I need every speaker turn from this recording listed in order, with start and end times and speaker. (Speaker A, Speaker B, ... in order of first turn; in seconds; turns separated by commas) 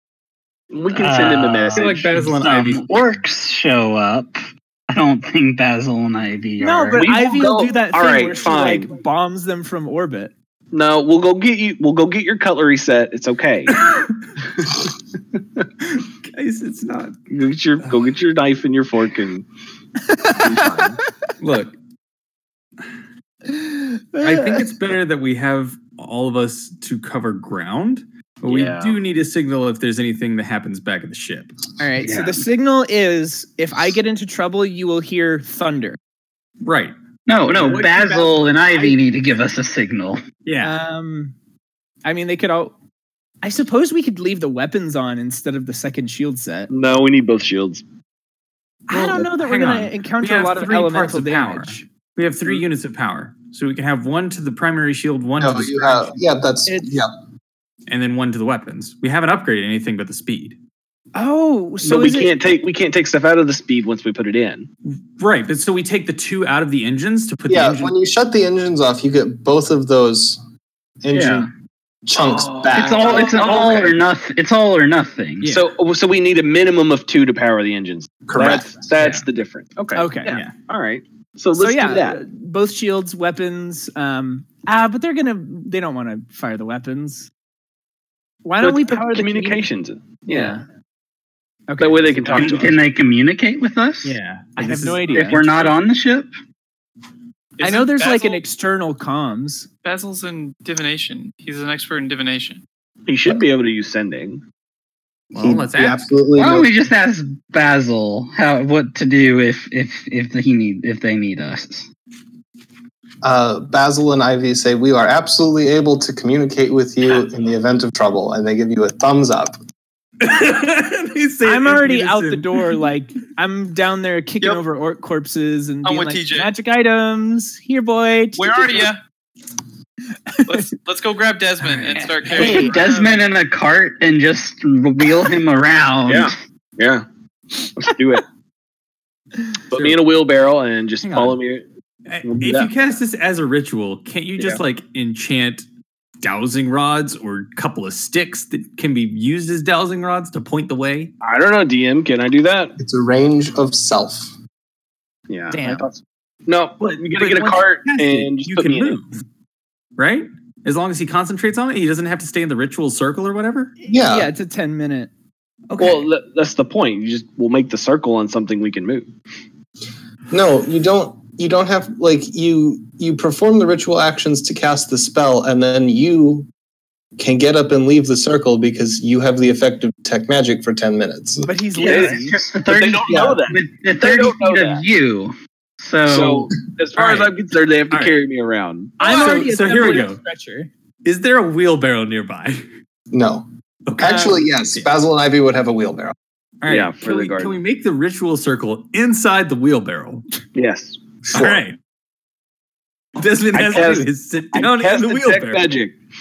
Speaker A: 0.7-2.1, Speaker B: 0.9-7.1, Speaker C: 1.7-2.8, Speaker D: 6.6-10.3, Speaker A: 7.0-8.9, Speaker A: 10.7-13.8, Speaker C: 16.2-17.2, Speaker A: 17.3-19.5, Speaker D: 20.1-20.9, Speaker A: 20.3-21.0, Speaker C: 21.4-21.8, Speaker D: 23.5-24.6, Speaker C: 24.2-31.6, Speaker A: 28.5-29.0, Speaker D: 31.8-36.0, Speaker B: 32.0-32.4, Speaker C: 36.6-37.0, Speaker B: 37.3-40.2, Speaker D: 37.6-39.0, Speaker C: 40.5-40.7, Speaker D: 40.6-41.3, Speaker D: 42.0-42.7, Speaker D: 43.4-46.7, Speaker A: 46.7-47.8, Speaker D: 48.9-51.9, Speaker C: 48.9-56.2, Speaker E: 55.4-57.1, Speaker C: 57.9-60.6, Speaker D: 61.1-62.3, Speaker A: 61.8-64.7, Speaker C: 65.2-67.9, Speaker E: 67.5-70.4, Speaker E: 71.0-71.5, Speaker B: 71.1-71.5, Speaker E: 72.1-73.5, Speaker A: 72.2-74.0, Speaker B: 72.7-75.6, Speaker A: 75.5-82.2, Speaker E: 78.3-78.7, Speaker D: 80.0-80.4, Speaker C: 80.3-80.5, Speaker D: 81.6-87.3, Speaker D: 88.5-89.6, Speaker A: 88.6-90.6, Speaker D: 90.3-90.6, Speaker D: 91.7-92.7, Speaker A: 91.8-92.8, Speaker B: 92.3-94.2, Speaker C: 94.0-95.7, Speaker D: 94.6-95.5, Speaker B: 95.1-96.3, Speaker F: 97.6-98.4, Speaker D: 97.6-99.7, Speaker F: 99.8-102.6, Speaker A: 103.1-104.4, Speaker C: 105.3-106.1, Speaker E: 105.4-106.7, Speaker B: 106.4-111.9, Speaker E: 113.2-119.6, Speaker C: 120.2-122.6, Speaker D: 121.4-128.9, Speaker F: 125.8-126.5, Speaker F: 128.4-129.0, Speaker D: 130.4-130.7, Speaker F: 130.5-133.2, Speaker C: 131.6-132.1, Speaker D: 132.0-132.7, Speaker B: 132.3-136.3, Speaker A: 136.1-137.1, Speaker A: 137.8-138.2, Speaker A: 139.7-141.7, Speaker C: 139.7-140.0, Speaker C: 141.0-141.4, Speaker C: 142.1-145.7, Speaker A: 142.2-142.7, Speaker C: 146.2-151.1, Speaker A: 151.2-152.8, Speaker E: 152.8-154.3, Speaker A: 155.3-159.0, Speaker D: 155.5-155.9, Speaker C: 157.2-159.1, Speaker C: 160.0-163.7, Speaker D: 163.8-165.1, Speaker E: 163.9-164.3, Speaker C: 165.7-166.1, Speaker A: 165.8-169.1, Speaker E: 170.3-176.5, Speaker E: 177.2-181.5, Speaker D: 181.4-182.3, Speaker A: 181.8-184.8, Speaker B: 181.8-186.5, Speaker E: 183.1-183.4, Speaker A: 186.1-189.3, Speaker C: 186.9-187.3, Speaker C: 187.9-188.2, Speaker D: 189.0-190.7, Speaker C: 189.0-190.2, Speaker C: 191.0-192.7, Speaker E: 193.1-196.2, Speaker C: 193.9-194.9, Speaker C: 196.6-200.3, Speaker A: 196.7-197.6, Speaker A: 200.6-201.6, Speaker C: 201.3-201.8, Speaker C: 203.2-205.7, Speaker A: 203.5-205.9